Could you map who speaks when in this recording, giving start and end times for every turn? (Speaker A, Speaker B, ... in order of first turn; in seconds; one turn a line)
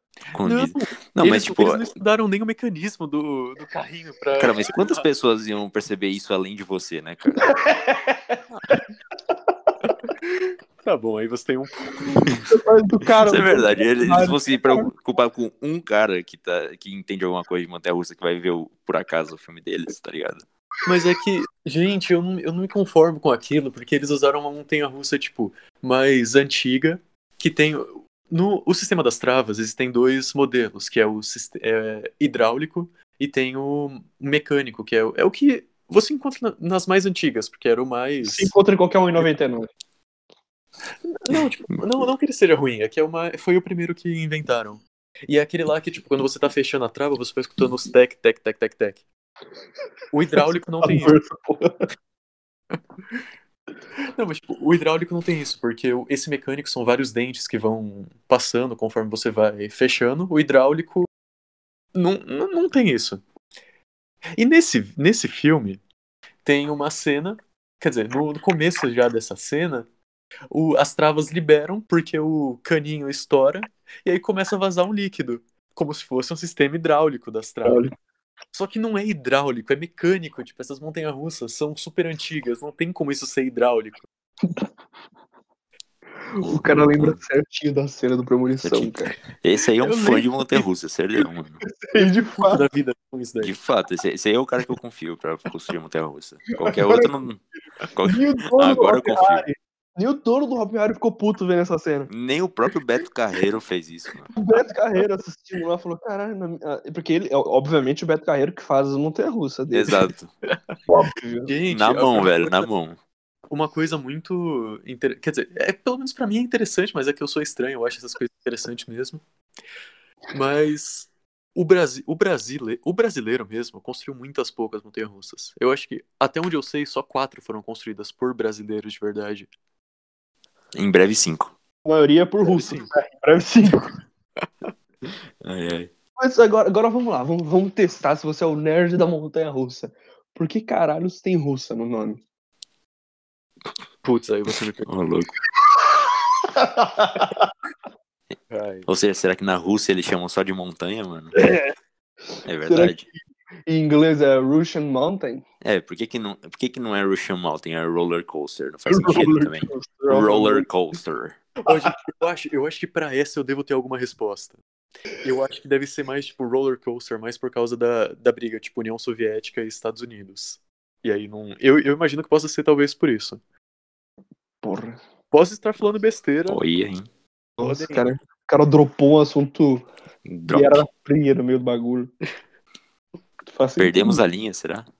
Speaker A: 0.3-1.9
Speaker B: 0.4-5.0
Speaker A: 4.4-7.5
Speaker C: 7.4-8.8
Speaker B: 10.1-12.3
Speaker C: 12.5-14.9
Speaker A: 13.2-20.4
Speaker B: 20.9-38.5
Speaker C: 38.2-39.7
Speaker B: 41.1-49.0
Speaker B: 50.1-51.2
Speaker C: 50.4-51.8
Speaker B: 54.1-61.1
Speaker B: 62.0-63.2
Speaker B: 64.4-65.8
Speaker B: 66.5-69.9
Speaker B: 70.5-77.9
Speaker C: 77.7-77.9
Speaker B: 78.5-84.1
Speaker C: 86.3-89.2
Speaker A: 86.4-87.2
Speaker A: 88.6-91.6
Speaker B: 89.8-90.7
Speaker C: 91.7-92.7
Speaker B: 92.4-93.5
Speaker A: 93.4-99.5
Speaker C: 96.5-97.1
Speaker C: 98.0-102.1
Speaker A: 102.1-104.3
Speaker C: 104.3-110.1
Speaker A: 109.7-110.3
Speaker C: 110.9-111.5
Speaker B: 111.5-112.7
Speaker A: 111.7-113.0
Speaker B: 113.5-119.2
Speaker B: 120.3-129.5
Speaker A: 130.7-131.6
Speaker C: 131.8-133.9
Speaker B: 132.4-132.9
Speaker A: 135.4-135.9
Speaker C: 136.2-142.2
Speaker B: 144.0-144.9
Speaker A: 144.8-145.3
Speaker C: 145.9-147.5
Speaker B: 148.5-148.9
Speaker A: 148.9-151.3
Speaker C: 151.3-151.7
Speaker C: 152.3-153.1
Speaker A: 152.4-153.1
Speaker C: 153.7-155.4
Speaker A: 155.6-161.4
Speaker C: 158.9-160.7
Speaker B: 161.7-164.6
Speaker B: 165.2-173.4
Speaker C: 174.6-175.0
Speaker B: 175.3-176.6
Speaker A: 176.5-177.1
Speaker C: 177.6-179.9
Speaker B: 177.6-178.1
Speaker A: 180.3-180.8
Speaker C: 180.5-182.1
Speaker C: 183.5-184.2
Speaker A: 183.8-184.9